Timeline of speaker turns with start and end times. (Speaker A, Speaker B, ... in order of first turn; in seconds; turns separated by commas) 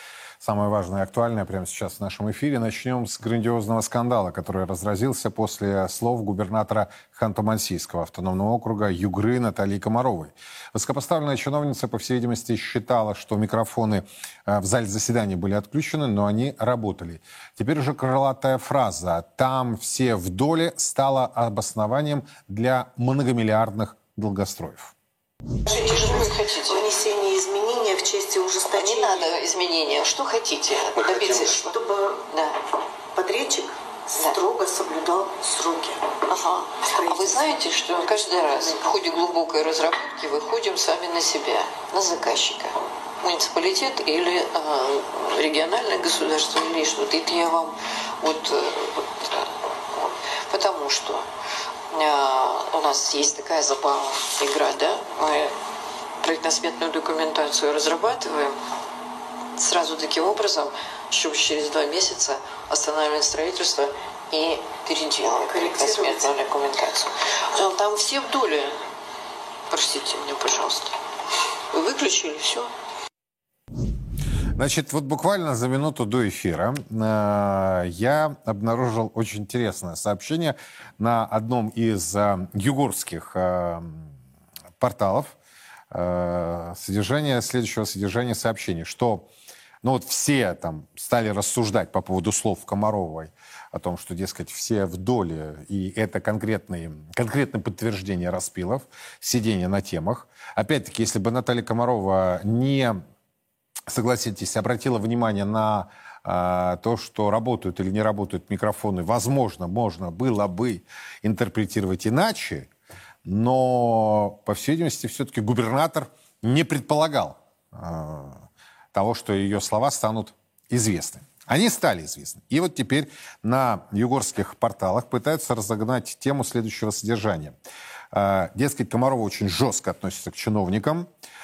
Speaker A: 0.4-24.9, Speaker B: 25.7-29.4, Speaker C: 25.7-26.9, Speaker C: 28.7-31.7, Speaker B: 31.0-32.2, Speaker B: 33.1-36.2, Speaker C: 36.3-51.3, Speaker B: 36.8-37.7, Speaker B: 38.3-39.0, Speaker C: 51.9-55.5, Speaker C: 56.2-58.6, Speaker C: 59.6-68.8, Speaker B: 65.5-66.3, Speaker C: 69.7-70.9, Speaker C: 71.7-72.7, Speaker A: 74.6-84.1, Speaker A: 84.8-85.4, Speaker A: 85.9-89.3, Speaker A: 89.8-103.0, Speaker A: 103.9-112.7, Speaker A: 113.2-127.6, Speaker A: 128.1-131.1